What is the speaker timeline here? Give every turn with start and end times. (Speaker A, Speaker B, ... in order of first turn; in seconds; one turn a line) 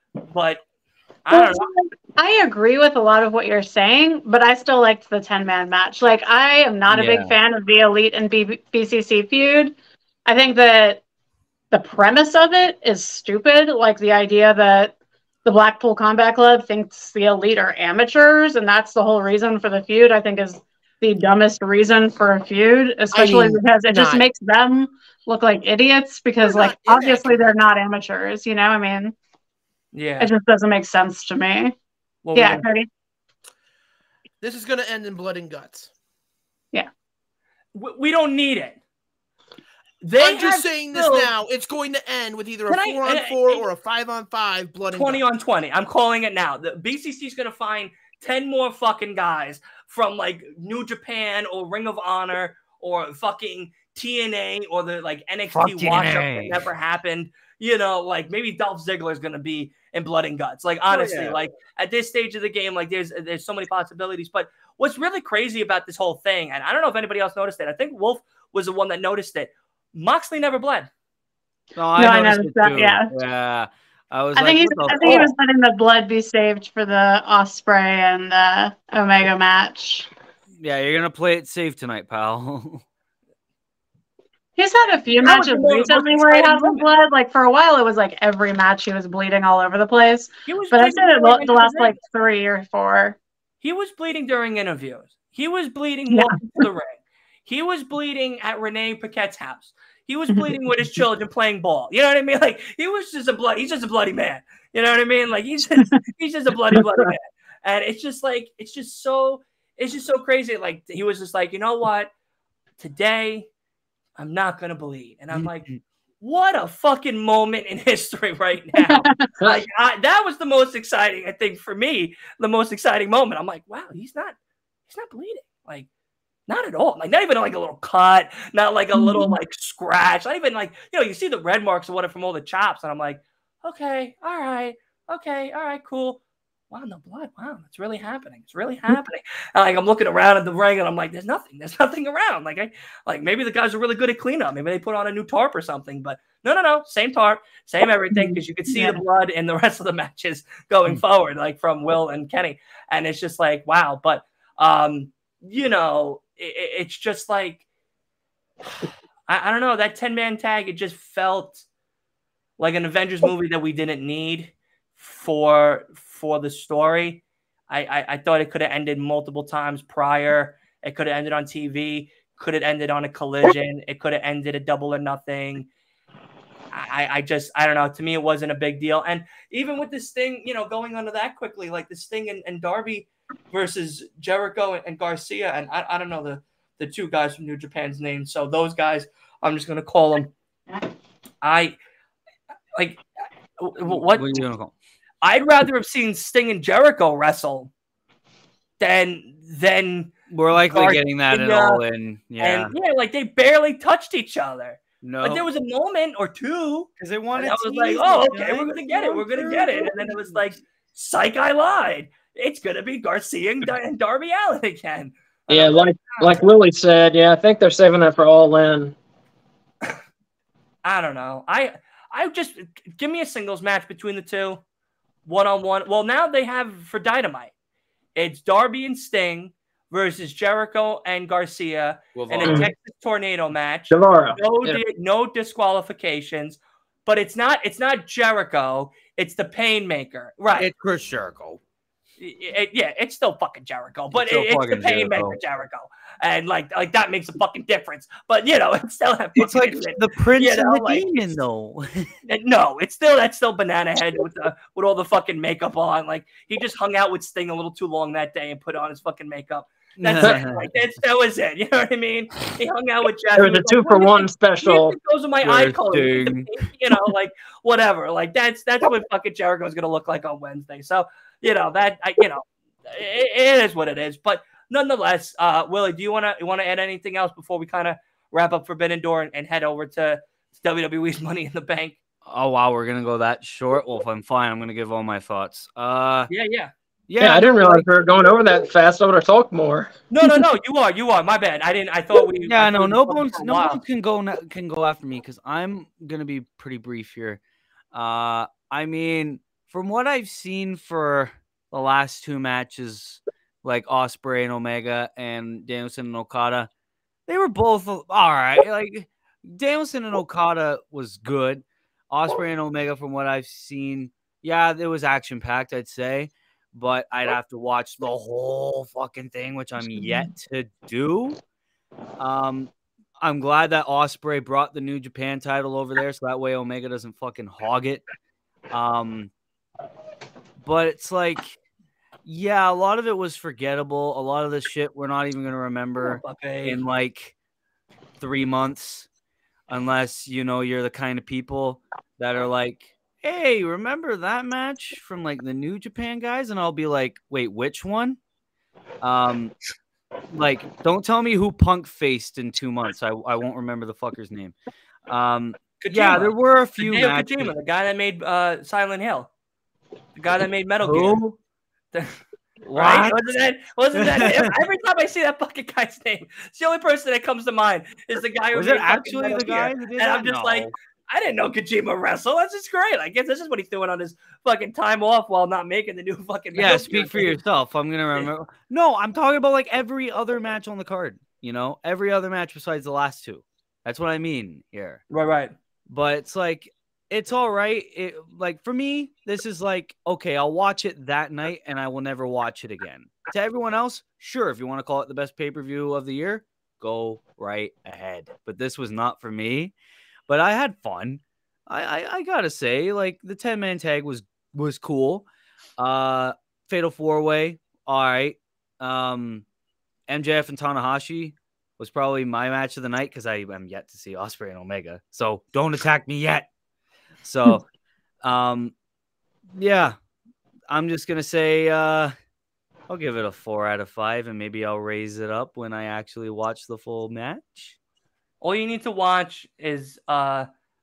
Speaker A: 0.3-0.6
Speaker A: 1.2-1.7
Speaker B: 1.3-11.0
Speaker C: 6.9-7.4
Speaker B: 11.7-29.1
Speaker D: 23.1-24.3
Speaker D: 26.4-27.5
Speaker A: 29.9-30.3
Speaker B: 30.2-31.7
Speaker A: 32.2-32.6
Speaker B: 32.3-32.9
Speaker D: 34.4-35.9
Speaker A: 37.7-38.8
Speaker A: 40.0-41.3
Speaker D: 40.2-45.2
Speaker A: 42.7-43.7
Speaker A: 44.9-70.9
Speaker C: 55.5-56.7
Speaker C: 60.9-61.4
Speaker C: 71.8-75.3
Speaker B: 72.0-73.1
Speaker B: 74.3-80.1
Speaker A: 75.0-75.3
Speaker C: 80.6-82.8
Speaker B: 84.6-93.2
Speaker A: 85.2-86.9
Speaker A: 90.5-92.0
Speaker A: 93.6-112.1
Speaker A: 112.8-113.5
Speaker A: 114.2-115.7
Speaker A: 116.2-124.4
Speaker B: 118.8-119.3
Speaker A: 124.9-125.9
Speaker A: 126.5-136.2
Speaker B: 129.0-129.3
Speaker A: 136.7-157.7
Speaker B: 148.2-149.0
Speaker A: 159.3-161.7
Speaker A: 162.6-175.7
Speaker A: 176.7-190.3
Speaker A: 191.4-191.8
Speaker A: 192.8-193.0
Speaker A: 193.6-194.5
Speaker C: 193.8-194.7
Speaker A: 195.2-197.7
Speaker A: 198.8-200.1
Speaker C: 200.3-202.7
Speaker A: 200.7-201.8
Speaker A: 202.4-216.4
Speaker C: 205.0-205.4
Speaker C: 207.0-210.5
Speaker E: 215.5-219.0
Speaker A: 220.8-224.6
Speaker A: 225.2-227.5
Speaker A: 228.2-240.7
Speaker C: 232.2-232.7
Speaker E: 232.4-232.7
Speaker E: 233.9-234.8
Speaker C: 240.6-241.6
Speaker A: 242.2-251.1
Speaker C: 244.1-245.4
Speaker C: 249.4-252.1
Speaker A: 252.3-282.0
Speaker C: 260.0-260.7
Speaker E: 263.4-264.9
Speaker C: 265.4-266.6
Speaker C: 282.2-286.3
Speaker A: 286.3-286.7
Speaker C: 287.1-287.9
Speaker E: 287.2-289.9
Speaker A: 290.1-293.8
Speaker C: 292.5-297.4
Speaker C: 297.9-306.7
Speaker C: 307.3-321.4
Speaker C: 322.2-328.1
Speaker C: 328.7-329.3
Speaker C: 330.6-331.6
Speaker C: 332.2-337.4
Speaker A: 336.0-336.8
Speaker C: 338.2-339.1
Speaker C: 339.7-348.2
Speaker C: 349.0-349.6
Speaker C: 350.3-354.6
Speaker C: 355.1-357.5
Speaker A: 355.8-359.3
Speaker A: 360.2-361.2
Speaker C: 360.8-361.4
Speaker A: 361.9-362.2
Speaker C: 362.6-363.3
Speaker A: 362.7-377.4
Speaker C: 363.9-364.5
Speaker C: 368.5-370.7
Speaker C: 376.6-385.0
Speaker A: 385.1-385.6
Speaker C: 385.9-399.7
Speaker C: 400.3-405.2
Speaker C: 405.8-409.4
Speaker C: 410.1-416.5
Speaker C: 417.2-417.7
Speaker C: 418.2-418.7
Speaker C: 419.6-419.9
Speaker C: 420.7-422.1
Speaker C: 422.9-427.8
Speaker A: 428.4-430.5